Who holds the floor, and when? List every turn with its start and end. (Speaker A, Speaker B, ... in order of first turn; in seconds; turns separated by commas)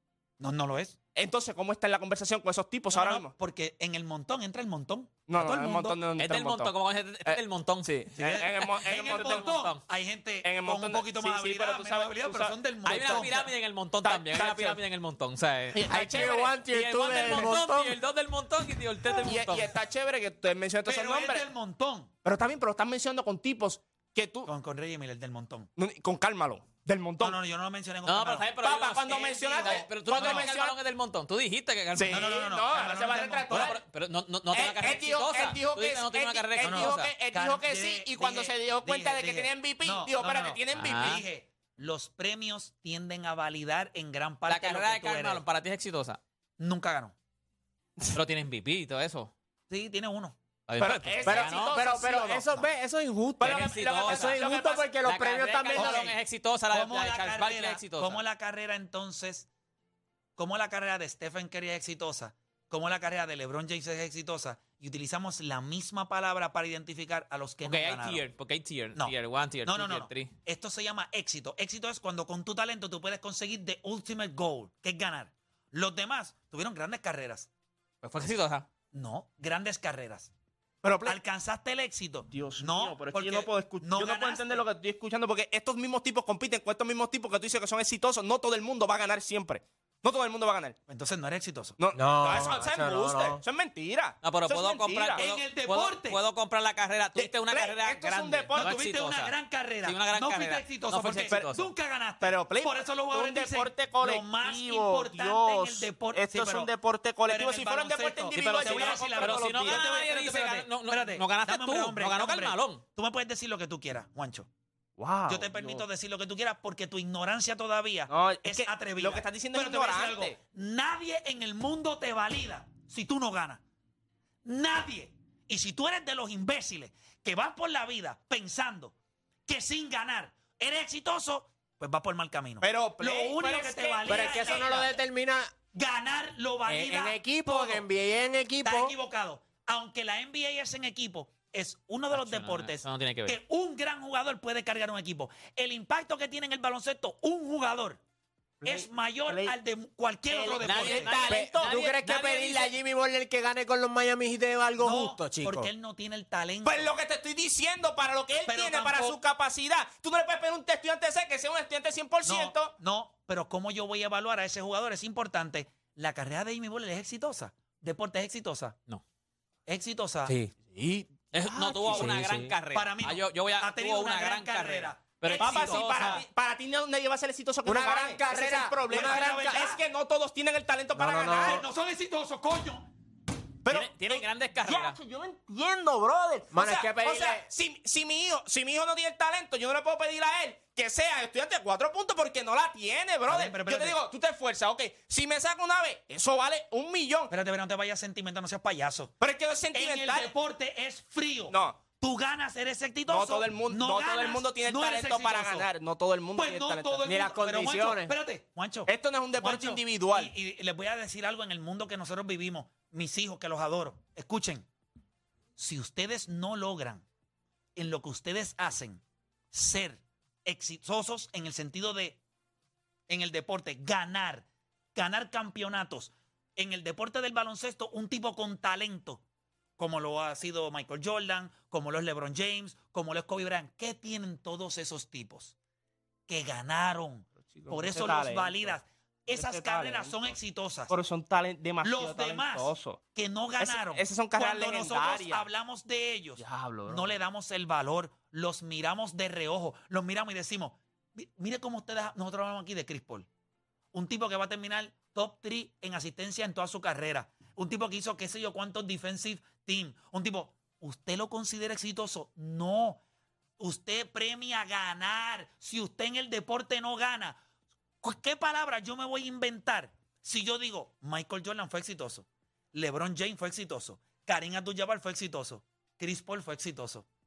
Speaker A: 0.4-0.9, Speaker B: 1.1-3.3, Speaker A: 2.9-6.0, Speaker B: 5.3-6.7, Speaker C: 6.2-9.8, Speaker B: 7.2-9.4, Speaker A: 8.2-13.5, Speaker B: 10.4-13.3, Speaker C: 12.8-19.7, Speaker B: 14.0-14.8, Speaker B: 15.7-17.6, Speaker D: 15.8-17.9, Speaker B: 19.2-21.4, Speaker A: 20.9-22.1, Speaker B: 22.2-24.5, Speaker A: 24.4-25.7, Speaker B: 25.8-27.4, Speaker A: 27.2-28.5, Speaker C: 28.0-32.4, Speaker B: 28.6-30.8, Speaker A: 29.0-30.5, Speaker B: 31.9-33.8, Speaker A: 32.1-33.8, Speaker C: 33.5-37.1, Speaker B: 34.5-41.2, Speaker A: 36.6-45.4, Speaker C: 40.7-41.2, Speaker C: 44.5-46.2, Speaker A: 46.6-47.1, Speaker C: 48.1-49.3, Speaker A: 49.7-50.4, Speaker C: 50.7-51.8, Speaker B: 50.8-52.7, Speaker D: 51.2-56.1, Speaker B: 53.4-54.9, Speaker C: 53.4-54.4, Speaker C: 55.0-58.2, Speaker A: 55.8-56.2, Speaker A: 56.7-59.5, Speaker A: 60.4-68.2, Speaker C: 67.6-70.3, Speaker A: 69.6-77.5, Speaker C: 78.0-78.7, Speaker A: 78.9-80.3, Speaker B: 80.8-81.2, Speaker A: 81.0-84.6, Speaker B: 82.3-90.8, Speaker A: 90.9-91.8, Speaker B: 91.8-95.2, Speaker D: 91.9-93.4, Speaker C: 94.2-101.7, Speaker A: 95.2-96.2, Speaker B: 97.2-98.8, Speaker A: 98.5-106.7, Speaker B: 102.2-109.8, Speaker A: 107.2-114.5, Speaker C: 108.3-112.8, Speaker B: 115.0-115.8, Speaker A: 115.3-123.6, Speaker B: 118.1-120.4, Speaker A: 124.4-128.9, Speaker A: 129.5-134.9, Speaker B: 132.6-134.8, Speaker D: 134.1-135.5, Speaker A: 135.7-137.8, Speaker D: 136.7-138.9, Speaker A: 138.6-148.0, Speaker C: 142.1-143.3, Speaker D: 148.6-149.5, Speaker A: 148.6-151.1, Speaker B: 150.3-151.9, Speaker C: 150.6-152.5, Speaker D: 151.3-155.7, Speaker A: 152.1-152.7, Speaker A: 154.8-156.9, Speaker B: 156.6-162.7, Speaker A: 158.5-159.2, Speaker A: 162.2-168.8, Speaker A: 169.7-170.3, Speaker D: 170.2-172.5, Speaker C: 171.3-176.2, Speaker B: 171.7-172.2, Speaker A: 172.7-176.2, Speaker B: 175.3-181.7, Speaker D: 177.6-179.7, Speaker A: 178.9-179.8, Speaker D: 180.9-181.6, Speaker A: 181.3-182.9, Speaker B: 183.6-197.3, Speaker C: 183.7-185.0, Speaker D: 186.5-187.5, Speaker A: 193.3-194.0, Speaker A: 197.3-199.1, Speaker B: 199.2-200.3, Speaker A: 199.7-205.7, Speaker B: 201.5-201.8, Speaker B: 203.1-207.0, Speaker A: 206.3-214.7, Speaker D: 207.0-208.1, Speaker B: 208.8-210.3, Speaker A: 215.6-217.0, Speaker A: 217.8-222.2, Speaker A: 223.1-229.2, Speaker A: 229.8-235.5, Speaker A: 236.3-240.9, Speaker B: 237.5-238.7, Speaker B: 239.3-240.3, Speaker B: 240.9-243.0, Speaker A: 241.8-253.3, Speaker B: 243.6-245.5, Speaker B: 246.4-247.2, Speaker A: 253.9-263.0, Speaker A: 263.6-267.4, Speaker A: 268.0-277.0